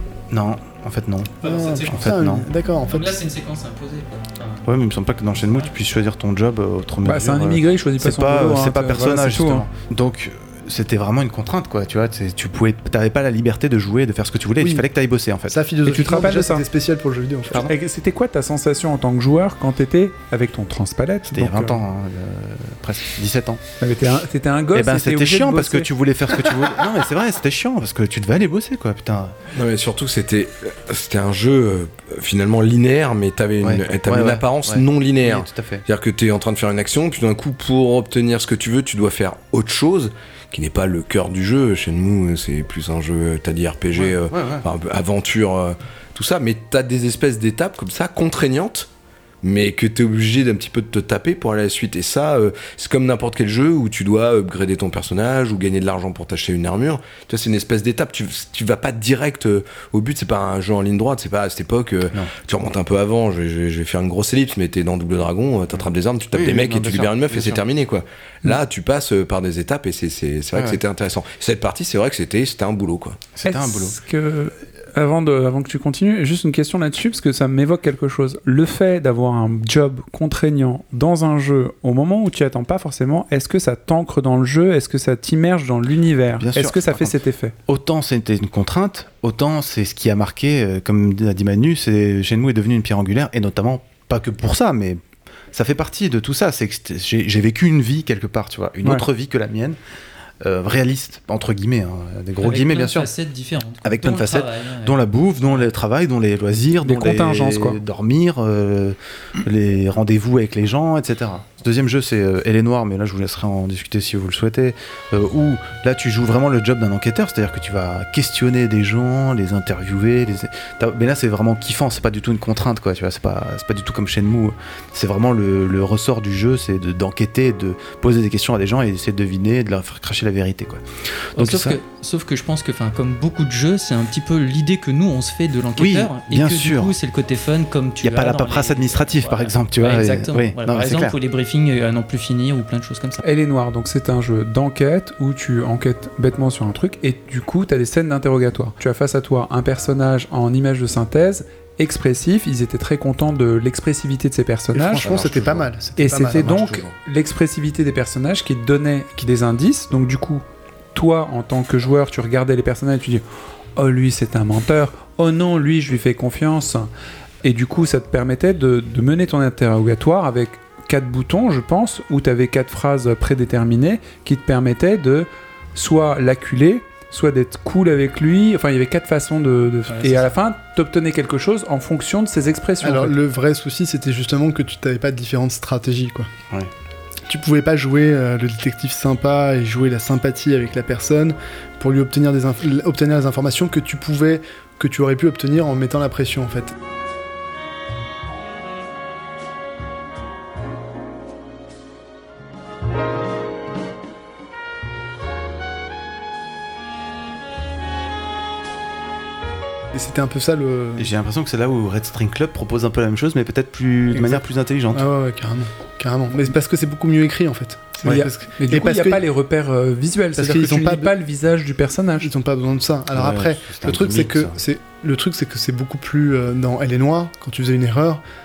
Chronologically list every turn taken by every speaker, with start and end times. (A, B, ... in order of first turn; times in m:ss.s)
0:00.3-0:02.4 A
0:01.4-0:02.1 B
0:01.4-0:03.2 C
0:02.8-0:04.6 B
0:04.6-0:15.6 A
0:05.4-0:05.7 B
0:07.0-0:09.6 D
0:15.5-0:17.7 C
0:15.8-0:16.6 D
0:17.6-0:21.8 D
0:21.3-0:23.6 A
0:23.8-0:25.9 D
0:24.7-0:29.4 A
0:29.5-0:48.9 E
0:33.6-0:35.8 A
0:43.9-0:44.7 A
0:49.4-1:13.2 E
1:06.3-1:07.6 A
1:10.5-1:10.8 A
1:13.3-1:14.0 A
1:13.4-1:27.5 D
1:26.4-1:35.0 A
1:35.5-1:39.8 A
1:40.4-1:43.1 A
1:42.4-1:45.6 B
1:43.8-2:10.8 A
1:46.8-1:47.8 D
2:11.3-2:11.8 A
2:11.4-2:23.2 B
2:15.8-2:16.9 A
2:18.0-2:21.2 A
2:23.2-2:35.1 D
2:34.7-2:36.5 C
2:35.0-2:35.7 A
2:36.0-2:43.2 D
2:36.4-2:36.8 A
2:43.8-2:46.9 D
2:47.4-3:03.2 D
3:02.8-3:06.3 C
3:07.3-3:16.8 C
3:29.9-3:31.1 C
3:31.0-3:35.0 A
3:34.1-3:34.4 C
3:34.9-3:39.2 C
3:38.0-3:42.3 D
3:40.4-3:41.1 C
3:42.2-3:48.2 C
3:43.1-3:44.6 A